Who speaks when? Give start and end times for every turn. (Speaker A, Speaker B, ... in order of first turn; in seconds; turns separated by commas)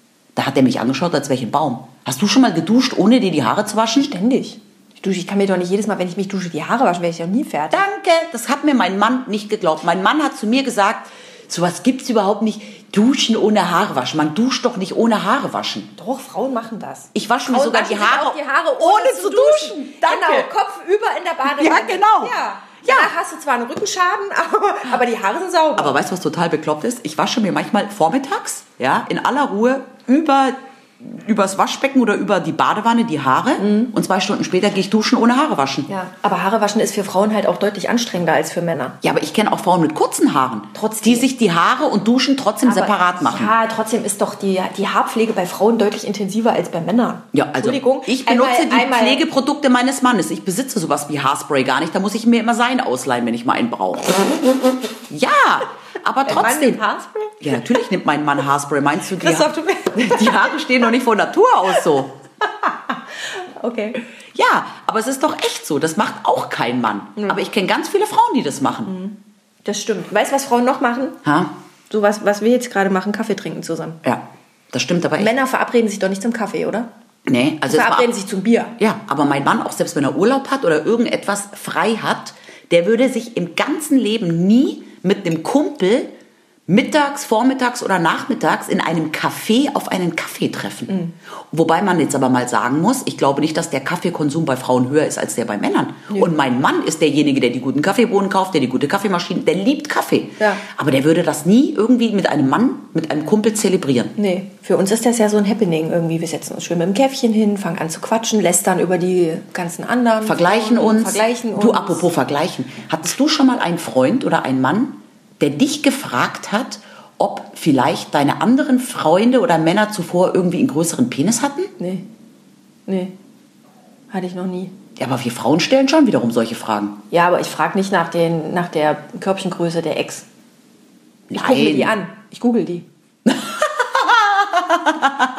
Speaker A: 0.4-4.1, Speaker B: 4.0-7.9, Speaker A: 7.7-15.9, Speaker B: 15.9-26.0, Speaker A: 17.1-20.5, Speaker A: 21.5-23.1, Speaker A: 25.8-35.9, Speaker B: 33.6-33.9, Speaker B: 35.9-39.0, Speaker A: 39.0-43.5, Speaker B: 40.7-41.3, Speaker B: 42.6-49.2, Speaker A: 47.3-54.2, Speaker A: 55.1-56.8, Speaker B: 56.2-57.4, Speaker A: 57.4-62.1, Speaker B: 59.2-60.7, Speaker B: 62.6-64.0, Speaker A: 64.3-68.9, Speaker B: 68.9-71.2, Speaker A: 71.2-71.5, Speaker B: 71.9-74.0, Speaker A: 74.0-75.3, Speaker B: 75.2-76.9, Speaker A: 77.3-78.1, Speaker B: 77.7-78.8, Speaker A: 78.8-86.1, Speaker A: 86.7-91.0, Speaker B: 90.9-91.1, Speaker A: 91.5-104.1, Speaker B: 104.2-112.1, Speaker A: 110.2-121.7, Speaker B: 121.8-122.0, Speaker B: 122.9-123.1, Speaker B: 124.1-124.7, Speaker A: 125.0-127.0, Speaker B: 127.1-130.3, Speaker A: 131.3-131.9, Speaker B: 131.3-132.9, Speaker A: 133.3-135.1